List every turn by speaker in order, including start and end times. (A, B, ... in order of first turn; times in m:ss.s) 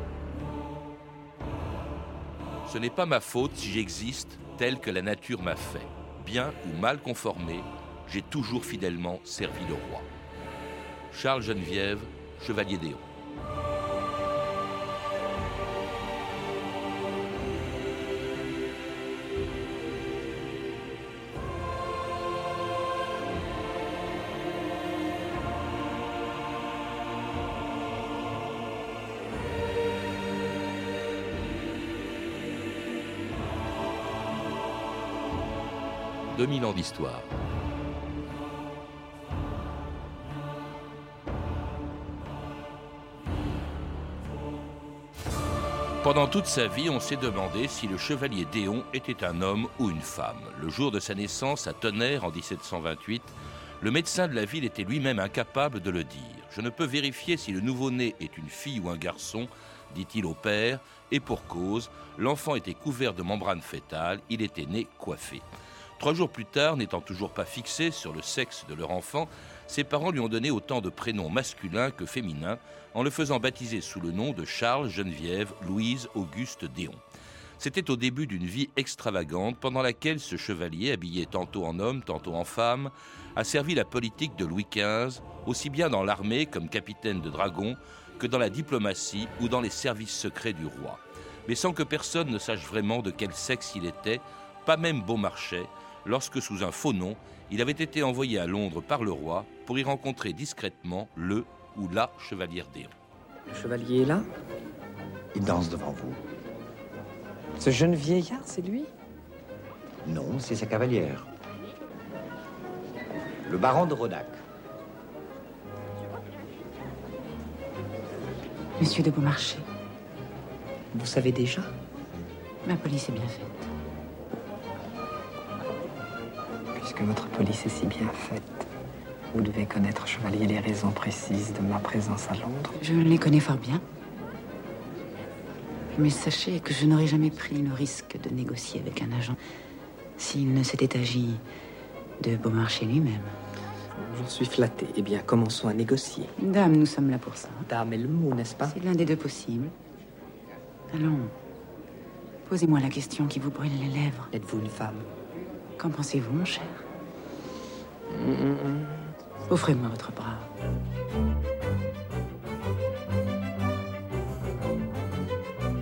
0:02.6-0:10.1 A
0:11.1-0:13.0 A
0:36.3-0:37.3 A
0:46.0-1:05.4 A
1:06.0-1:17.0 A
1:17.6-1:42.9 A
1:43.5-1:44.2 B
1:45.3-1:46.2 C
1:47.6-1:48.9 B
1:50.0-1:51.3 C
1:53.4-1:54.4 C
1:58.8-1:59.6 D
2:00.9-2:01.7 B
2:02.6-2:03.6 D
2:06.7-2:08.7 B
2:09.3-2:12.8 B
2:12.8-2:13.8 D
2:15.9-2:19.4 D
2:20.2-2:21.4 D
2:22.2-2:23.3 D
2:24.0-2:26.3 B
2:26.4-2:27.6 D
2:27.7-2:28.8 B
2:28.7-2:29.7 D
2:30.9-2:31.3 D
2:32.4-2:34.3 D
2:34.3-2:35.0 B
2:35.8-2:36.8 D
2:38.1-2:39.0 B
2:39.5-2:40.5 D